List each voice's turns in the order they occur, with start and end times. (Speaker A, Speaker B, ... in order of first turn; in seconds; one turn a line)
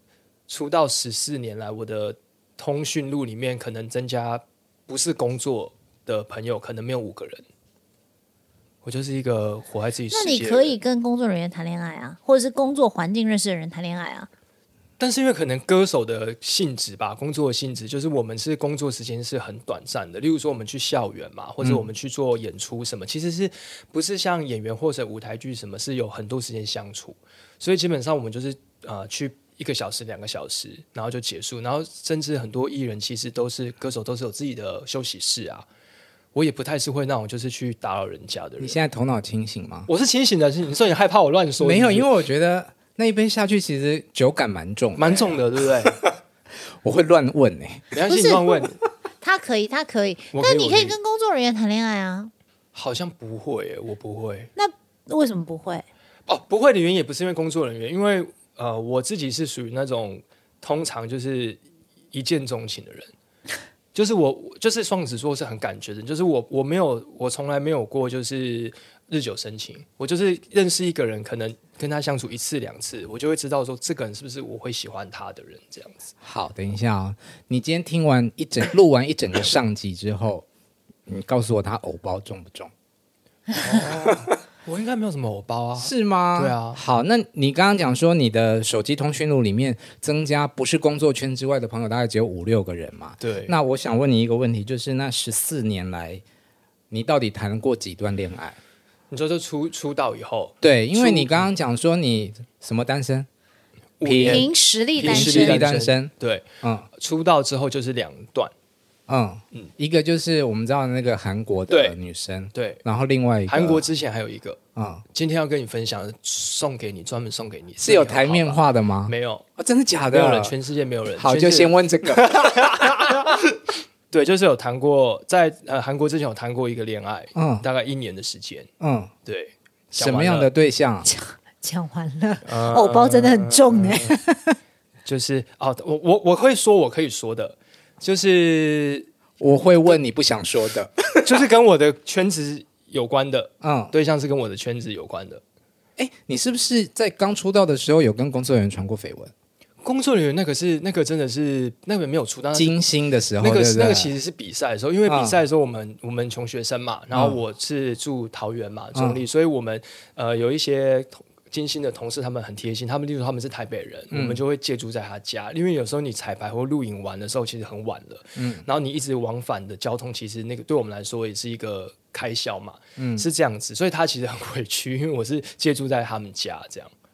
Speaker A: 0.5-7.4
Speaker A: 8.8-10.8
Speaker B: 10.1-14.3
Speaker A: 15.0-35.6
Speaker A: 36.3-38.8
Speaker C: 38.6-39.9
Speaker A: 39.9-42.1
Speaker C: 41.6-46.1
Speaker A: 45.0-46.0
Speaker C: 46.8-47.9
Speaker A: 47.9-48.8
Speaker B: 48.1-48.6
Speaker B: 49.2-52.3
Speaker A: 50.3-51.0
Speaker A: 52.7-54.5
Speaker B: 54.5-55.8
Speaker A: 56.3-63.1
Speaker A: 63.9-76.1
Speaker C: 76.2-80.5
Speaker C: 81.1-82.7
Speaker A: 83.6-86.8
Speaker C: 83.8-84.3
Speaker C: 85.8-96.2
Speaker A: 93.2-93.5
Speaker C: 96.9-98.6
Speaker A: 99.1-101.5
Speaker C: 100.6-103.3
Speaker A: 104.0-108.5
Speaker C: 104.0-104.5
Speaker B: 104.2-105.6
Speaker C: 105.0-106.9
Speaker C: 109.1-113.9
Speaker A: 111.7-112.0
Speaker A: 112.5-112.8
Speaker A: 113.5-114.6
Speaker C: 114.7-115.0
Speaker A: 115.1-119.4
Speaker C: 117.8-120.5
Speaker A: 120.1-123.6
Speaker C: 121.2-122.8
Speaker A: 124.1-128.7
Speaker C: 127.3-127.6
Speaker C: 128.8-129.1
Speaker A: 129.2-130.5
Speaker C: 129.9-131.1
Speaker B: 131.0-134.6
Speaker A: 132.4-134.2
Speaker A: 135.0-139.1
Speaker C: 139.4-141.3
Speaker A: 141.2-145.4
Speaker C: 143.6-143.9
Speaker C: 146.0-149.3
Speaker A: 149.8-152.8
Speaker C: 152.5-154.1
Speaker A: 153.4-176.9
Speaker C: 155.1-155.4
Speaker C: 157.1-157.4
Speaker C: 158.9-159.2
Speaker C: 164.1-164.4
Speaker C: 168.3-168.7
Speaker C: 173.0-173.2